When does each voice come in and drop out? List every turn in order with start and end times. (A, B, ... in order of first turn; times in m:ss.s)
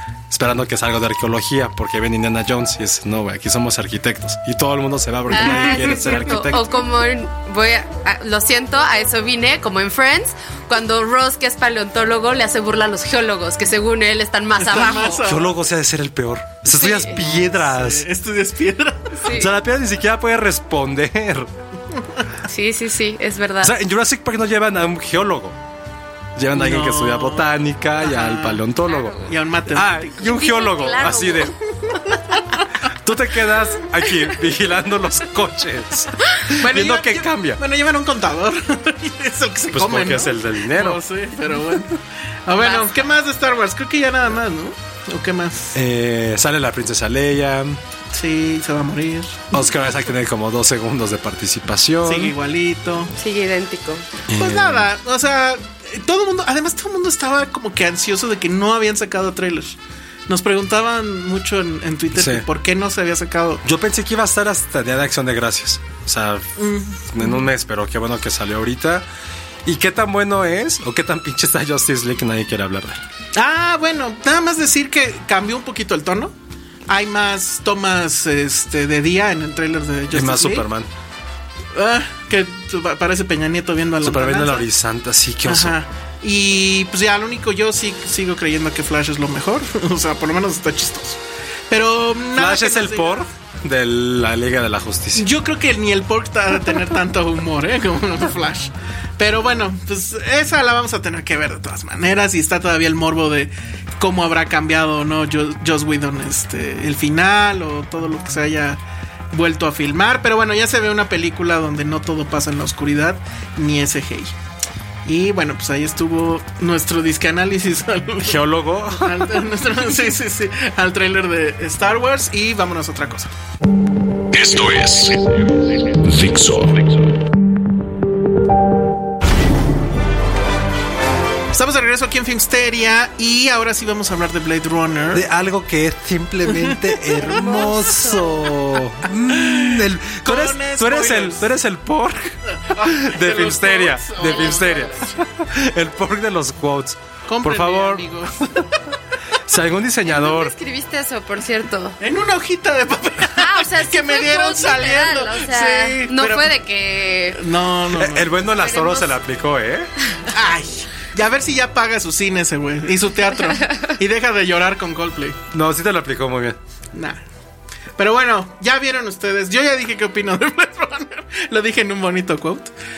0:00.3-0:06.6 A
0:05.3-0:15.2 B
0:05.4-0:06.1 C
0:14.6-0:15.6 C
0:15.2-0:18.0 A
0:16.7-0:17.2 B
0:17.2-0:19.3 C
0:19.2-0:19.5 B
0:19.3-0:21.5 A
0:22.5-0:23.7 B
0:23.6-0:25.6 A
0:26.4-0:31.5 A
0:26.5-0:28.6 C
0:28.9-0:29.3 B
0:29.3-0:30.3 C
0:30.2-0:31.5 B
0:32.0-0:32.6 C
0:33.0-0:37.6 A
0:36.6-0:45.8 C
0:39.7-0:41.0 A
0:42.6-0:43.1 B
0:45.7-0:47.8 A
0:48.1-0:49.8 C
0:49.5-0:52.3 A
0:52.0-0:53.1 C
0:53.2-0:54.0 B
0:54.3-0:54.9 A
0:54.3-0:59.8 C
1:00.3-1:03.6 C
1:02.1-1:02.5 A
1:03.6-1:06.5 A
1:06.6-1:07.5 C
1:07.1-1:09.0 A
1:09.6-1:13.0 A
1:13.4-1:16.3 C
1:16.9-1:20.7 C
1:20.1-1:20.9 A
1:21.8-1:24.7 C
1:24.0-1:25.8 A
1:25.4-1:31.2 C
1:31.7-1:33.3 C
1:32.4-1:35.3 A
1:35.1-1:48.8 C
1:49.3-1:54.3 C
1:55.0-2:03.3 C
1:58.2-1:59.3 A
2:04.3-2:07.1 D
2:11.5-2:15.3 C
2:15.1-2:28.0 A
2:16.5-2:18.0 C
2:19.3-2:21.5 C
2:22.7-2:25.1 C
2:27.3-2:28.8 C
2:29.5-2:30.5 A
2:30.1-2:32.0 B
2:32.0-2:36.5 C
2:33.4-2:37.4 B
2:37.4-2:38.4 C
2:37.9-2:39.9 A
2:38.6-2:39.2 B
2:40.3-2:45.4 C
2:45.5-2:46.6 A
2:46.9-2:47.2 C
2:48.0-2:52.7 C